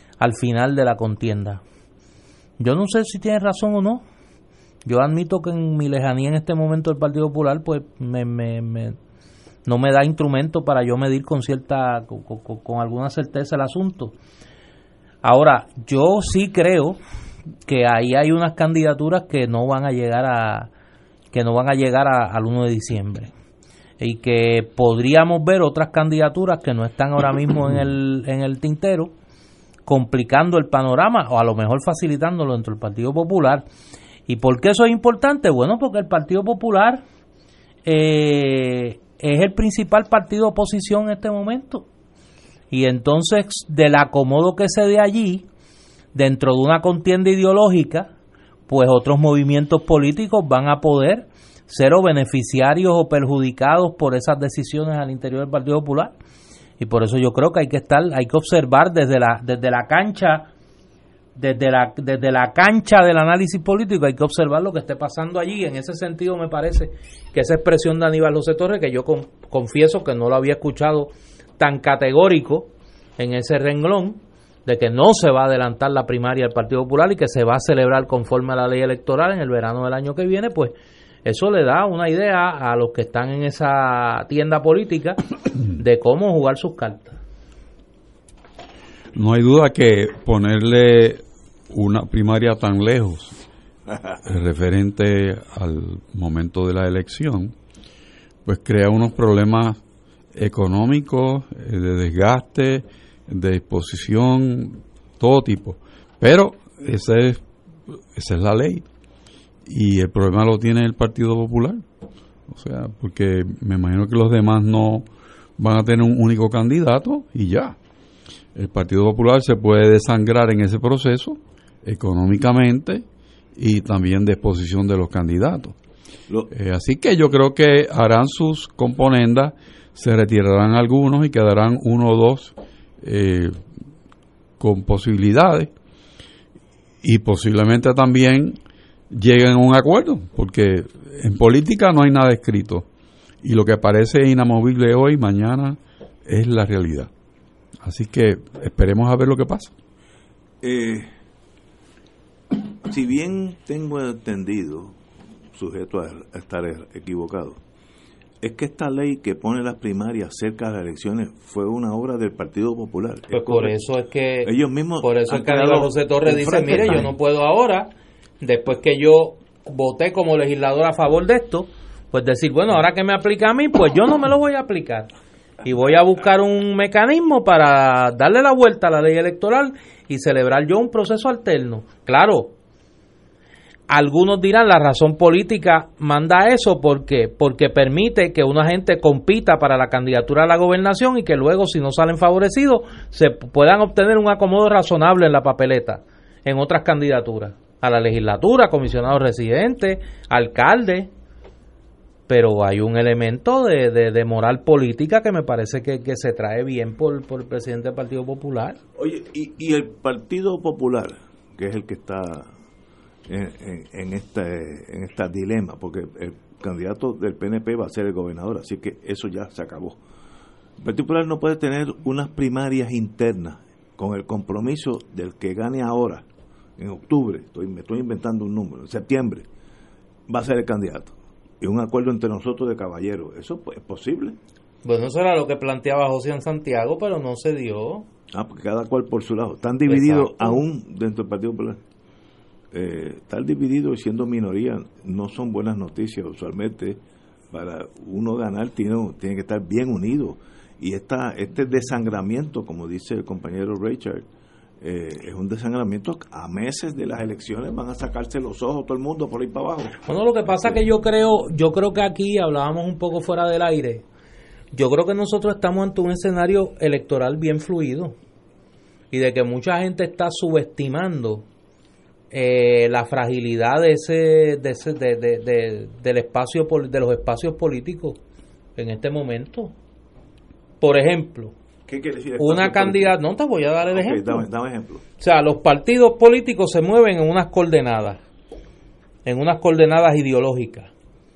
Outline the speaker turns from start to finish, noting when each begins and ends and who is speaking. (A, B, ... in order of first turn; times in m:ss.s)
0:00.2-0:01.6 A
0:02.6-0:04.0 A
0:04.8-0:09.0 A
0:09.6-0:14.1 A
0:15.2-0:17.0 A
0:17.6-0:20.7 A
0:21.3-0:23.3 A
0:24.0-0:29.1 A
0:29.8-0:33.6 A
0:34.3-0:37.0 A
0:37.8-0:41.9 A
0:42.7-0:45.4 A
0:46.1-0:48.1 A
0:48.7-0:56.1 A
0:56.8-1:00.5 A
1:01.4-1:27.2 A
1:29.1-1:33.4 B
1:34.2-1:37.5 B
1:38.4-1:39.8 B
1:40.3-1:48.8 B
1:49.6-1:51.8 B
1:52.5-1:55.0 B
1:55.6-1:57.8 B
1:58.5-2:03.0 B
2:03.6-2:05.7 B
2:06.5-2:13.6 B
2:14.6-2:15.7 B
2:17.0-2:18.6 B
2:19.1-2:22.8 B
2:23.4-2:27.1 B
2:27.8-2:29.7 B
2:30.6-2:31.1 C
2:32.8-2:35.0 C
2:35.5-2:37.6 C
2:38.4-2:43.7 C
2:43.3-2:55.1 A
2:44.4-2:47.1 C
2:55.6-3:02.6 A
3:03.9-3:21.1 A
3:22.3-3:28.8 A
3:29.0-3:32.5 C
3:33.3-3:40.0 C
3:40.8-3:46.2 C
3:46.8-3:49.4 C
3:50.3-3:54.4 C
3:54.8-3:58.1 A
3:58.3-4:01.8 C
3:59.9-4:00.6 A
4:02.7-4:07.0 C
4:07.5-4:14.2 C
4:14.8-4:20.0 C
4:20.0-4:24.0 A
4:24.7-4:28.2 A
4:29.1-4:31.4 A
4:32.3-4:38.2 A
4:38.8-4:39.7 A
4:40.8-4:41.5 A
4:41.9-4:43.2 C
4:42.4-4:44.4 A
4:43.9-4:45.0 C
4:45.2-4:48.2 A
4:49.2-4:50.9 A